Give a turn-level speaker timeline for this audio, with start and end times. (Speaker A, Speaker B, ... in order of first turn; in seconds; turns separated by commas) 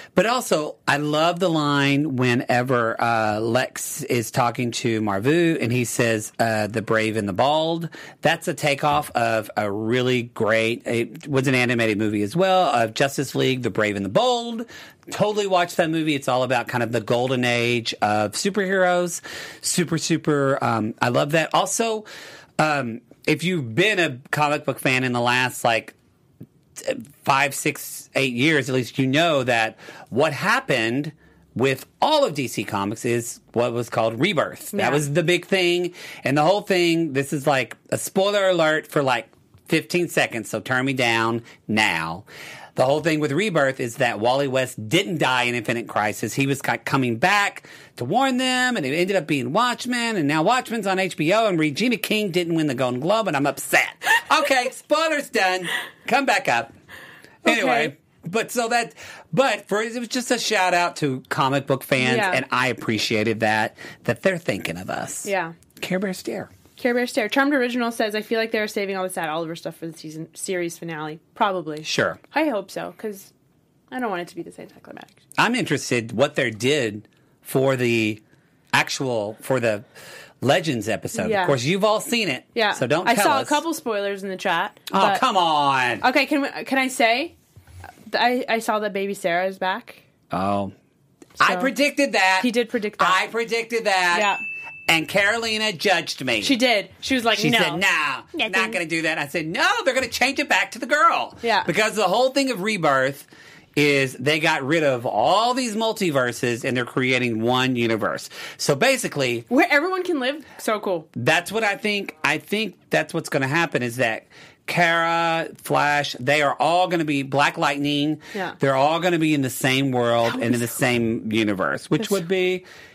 Speaker A: 0.1-22.1, Speaker A: 22.6-25.9, Speaker A: 26.8-56.7, Speaker B: 34.7-35.0, Speaker A: 57.4-66.5, Speaker B: 57.5-57.9, Speaker B: 62.0-62.4, Speaker B: 65.2-65.5, Speaker B: 66.8-73.3, Speaker A: 71.8-72.2, Speaker B: 73.9-75.2, Speaker A: 75.4-78.2, Speaker A: 78.7-79.9, Speaker A: 80.4-83.6, Speaker B: 81.2-81.6, Speaker B: 82.5-85.2, Speaker A: 84.9-86.0, Speaker B: 86.0-87.3, Speaker B: 88.1-90.0, Speaker A: 90.3-90.7, Speaker A: 91.4-94.3, Speaker B: 91.4-91.7, Speaker B: 92.4-93.2, Speaker B: 94.1-94.4, Speaker A: 94.9-96.6, Speaker B: 96.4-97.8, Speaker A: 97.4-109.5, Speaker B: 98.3-98.8, Speaker B: 101.4-101.7, Speaker B: 109.5-111.1, Speaker A: 111.2-122.7, Speaker B: 120.3-120.7